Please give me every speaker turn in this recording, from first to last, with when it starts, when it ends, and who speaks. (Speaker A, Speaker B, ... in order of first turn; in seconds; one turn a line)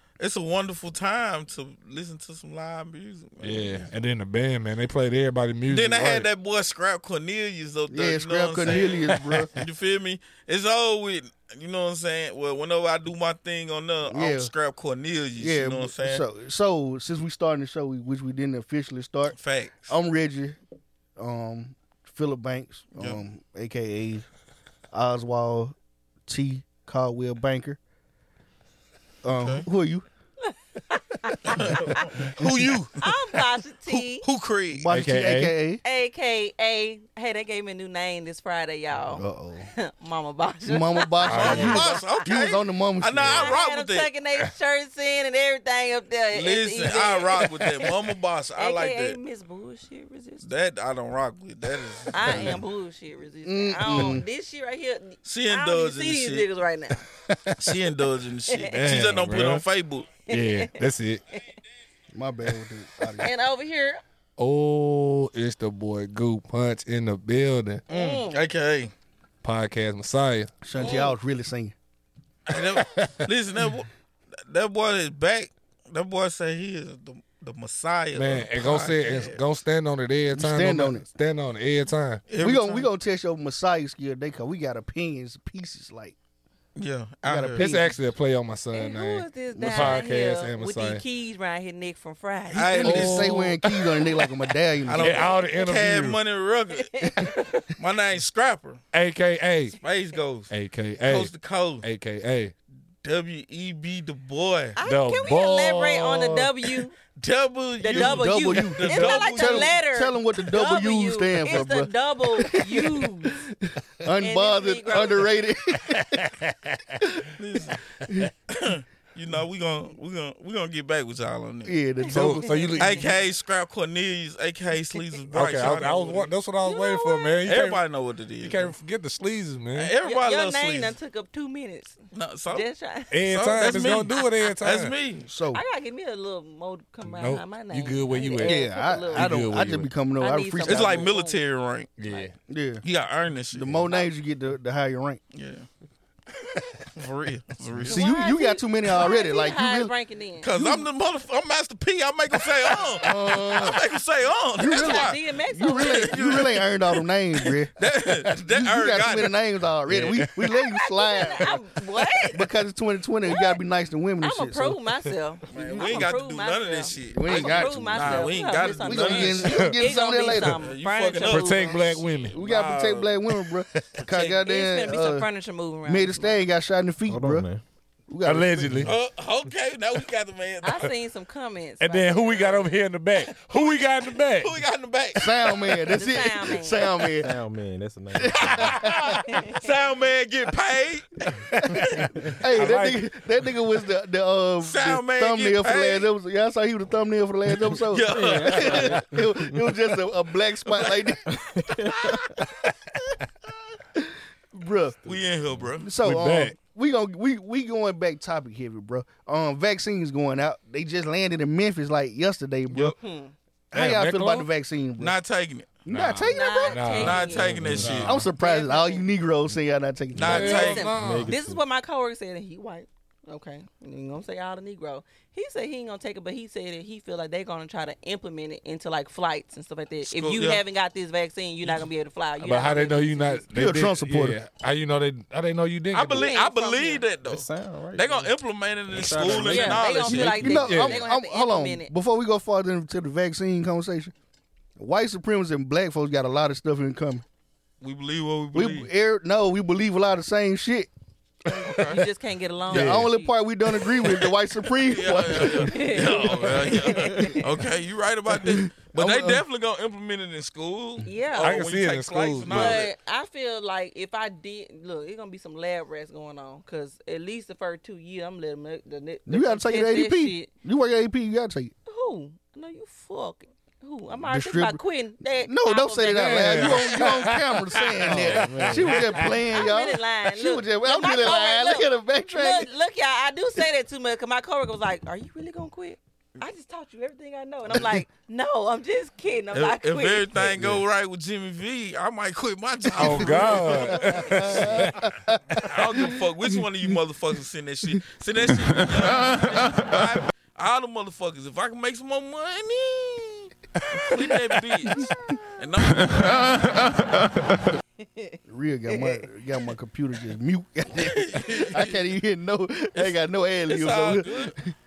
Speaker A: 0.2-3.9
Speaker B: 3.4-6.3
Speaker A: 5.7-16.2
Speaker C: 7.9-9.5
Speaker C: 14.1-14.5
Speaker C: 15.4-19.4
Speaker A: 19.3-19.9
Speaker C: 19.9-20.6
Speaker C: 21.2-24.2
Speaker A: 22.9-23.2
Speaker C: 24.9-25.8
Speaker C: 26.3-27.8
Speaker C: 29.2-30.0
Speaker A: 29.3-29.7
Speaker D: 30.5-32.0
Speaker A: 31.5-33.0
Speaker D: 33.0-34.2
Speaker A: 33.9-34.9
Speaker C: 34.7-35.8
Speaker B: 34.9-35.5
Speaker D: 35.8-39.2
Speaker C: 39.1-39.7
Speaker D: 39.8-42.2
Speaker C: 40.6-43.5
Speaker B: 41.3-41.8
Speaker A: 41.3-44.1
Speaker D: 43.3-47.9
Speaker A: 46.3-49.2
Speaker D: 48.5-50.5
Speaker A: 50.4-52.5
Speaker D: 52.1-57.0
Speaker C: 53.4-54.2
Speaker A: 55.2-56.5
Speaker B: 57.3-57.6
Speaker A: 57.6-60.2
Speaker D: 58.5-58.8
Speaker B: 58.7-59.6
Speaker D: 60.3-60.7
Speaker B: 60.3-61.2
Speaker C: 62.1-63.3
Speaker D: 63.2-64.0
Speaker B: 64.4-67.8
Speaker D: 67.9-68.4
Speaker A: 67.9-68.9
Speaker B: 69.4-70.5
Speaker C: 70.6-71.8
Speaker A: 70.8-71.1
Speaker A: 72.5-73.9
Speaker B: 72.8-73.1
Speaker A: 74.5-79.4
Speaker B: 78.1-82.2
Speaker C: 80.3-81.1
Speaker A: 82.3-82.9
Speaker C: 82.4-86.2
Speaker A: 86.8-87.7
Speaker C: 87.2-88.0
Speaker B: 87.5-91.0
Speaker D: 88.7-92.8
Speaker C: 89.5-90.0
Speaker A: 92.5-93.4
Speaker C: 92.6-95.3
Speaker B: 92.8-94.0
Speaker A: 94.9-97.0
Speaker B: 95.0-96.2
Speaker D: 96.8-97.6
Speaker A: 97.8-98.8
Speaker B: 98.9-99.8
Speaker A: 99.8-100.5
Speaker B: 100.5-102.5
Speaker A: 101.0-101.8
Speaker A: 103.0-104.8
Speaker D: 104.8-106.9
Speaker B: 104.8-106.5
Speaker A: 107.2-109.7
Speaker D: 107.8-113.5
Speaker C: 107.9-116.3
Speaker D: 114.2-115.3
Speaker B: 115.9-117.0
Speaker A: 117.4-117.8
Speaker A: 118.5-121.8
Speaker C: 121.7-122.5
Speaker D: 122.1-123.1
Speaker B: 122.1-123.1
Speaker A: 122.8-126.3
Speaker B: 125.3-127.8
Speaker D: 126.6-127.5
Speaker A: 127.5-128.8
Speaker B: 128.4-129.9
Speaker A: 129.8-130.9
Speaker D: 130.0-132.0
Speaker A: 132.1-132.7
Speaker D: 132.5-133.2
Speaker B: 133.1-134.9
Speaker A: 133.3-135.2
Speaker C: 135.2-135.6
Speaker D: 135.5-139.5
Speaker B: 137.1-139.9
Speaker C: 138.4-141.1
Speaker D: 140.2-141.4
Speaker A: 140.7-141.9
Speaker B: 142.0-142.3
Speaker D: 142.0-142.3
Speaker C: 142.5-142.8
Speaker A: 142.8-144.0
Speaker C: 143.5-145.2
Speaker A: 145.3-145.7
Speaker A: 147.0-148.0
Speaker C: 147.8-149.9
Speaker D: 147.9-150.5
Speaker A: 150.4-156.7
Speaker C: 150.5-150.8
Speaker C: 153.0-153.8
Speaker C: 154.6-157.7
Speaker D: 154.7-156.2
Speaker A: 157.8-159.3
Speaker C: 158.3-161.6
Speaker B: 159.9-160.3
Speaker D: 160.5-162.4
Speaker C: 162.3-164.8
Speaker D: 163.3-163.5
Speaker D: 164.2-171.7
Speaker A: 165.5-169.5
Speaker C: 167.1-170.6
Speaker A: 170.5-173.1
Speaker B: 171.2-172.4
Speaker C: 172.3-175.3
Speaker D: 174.1-176.4
Speaker C: 175.8-177.5
Speaker E: 177.1-177.6
Speaker C: 178.1-178.7
Speaker B: 178.2-178.9
Speaker E: 178.6-178.9
Speaker A: 178.8-180.9
Speaker D: 180.6-182.7
Speaker B: 181.8-184.5
Speaker A: 183.3-185.2
Speaker C: 185.2-187.3
Speaker D: 185.9-187.0
Speaker E: 187.2-188.7
Speaker C: 188.2-189.2
Speaker B: 188.5-188.7
Speaker D: 189.3-189.5
Speaker A: 189.5-191.4
Speaker C: 192.4-201.2
Speaker B: 192.5-193.0
Speaker A: 194.6-196.1
Speaker A: 197.9-199.1
Speaker E: 198.1-199.6
Speaker E: 201.3-202.2
Speaker C: 204.0-205.0
Speaker E: 205.0-205.7
Speaker A: 205.0-205.9
Speaker C: 205.8-212.9
Speaker B: 206.0-206.5
Speaker D: 213.0-213.3
Speaker C: 213.7-215.2
Speaker B: 213.7-214.5
Speaker A: 215.0-215.8
Speaker C: 215.8-216.8
Speaker B: 215.9-218.1
Speaker D: 216.3-219.1
Speaker A: 216.9-218.2
Speaker E: 217.6-218.1
Speaker C: 218.0-220.5
Speaker A: 220.2-220.9
Speaker B: 220.2-221.3
Speaker D: 220.3-233.4
Speaker E: 220.9-221.6
Speaker A: 230.1-230.6
Speaker B: 232.4-236.3
Speaker C: 233.5-234.4
Speaker A: 235.9-240.6
Speaker D: 236.2-237.0
Speaker E: 237.2-238.3
Speaker E: 238.9-240.2
Speaker D: 239.3-241.9
Speaker C: 240.4-244.1
Speaker B: 240.7-241.0
Speaker C: 244.8-247.2
Speaker A: 247.8-248.9
Speaker C: 248.5-250.9
Speaker A: 251.7-252.0
Speaker D: 251.8-253.3
Speaker C: 252.7-255.8
Speaker A: 254.8-262.9
Speaker D: 255.6-257.5
Speaker C: 258.3-259.4
Speaker D: 261.0-261.6
Speaker B: 261.4-262.8
Speaker D: 262.5-270.5
Speaker C: 269.3-271.7
Speaker D: 271.9-276.7
Speaker C: 274.2-274.8
Speaker C: 275.4-282.7
Speaker B: 276.1-279.3
Speaker E: 278.2-278.9
Speaker D: 278.9-290.3
Speaker C: 287.7-288.0
Speaker A: 289.5-294.7
Speaker B: 292.9-295.0
Speaker C: 293.0-296.6
Speaker D: 294.0-294.4
Speaker A: 295.7-306.7
Speaker C: 308.5-314.7
Speaker D: 308.9-309.2
Speaker A: 311.0-311.9
Speaker A: 312.9-314.6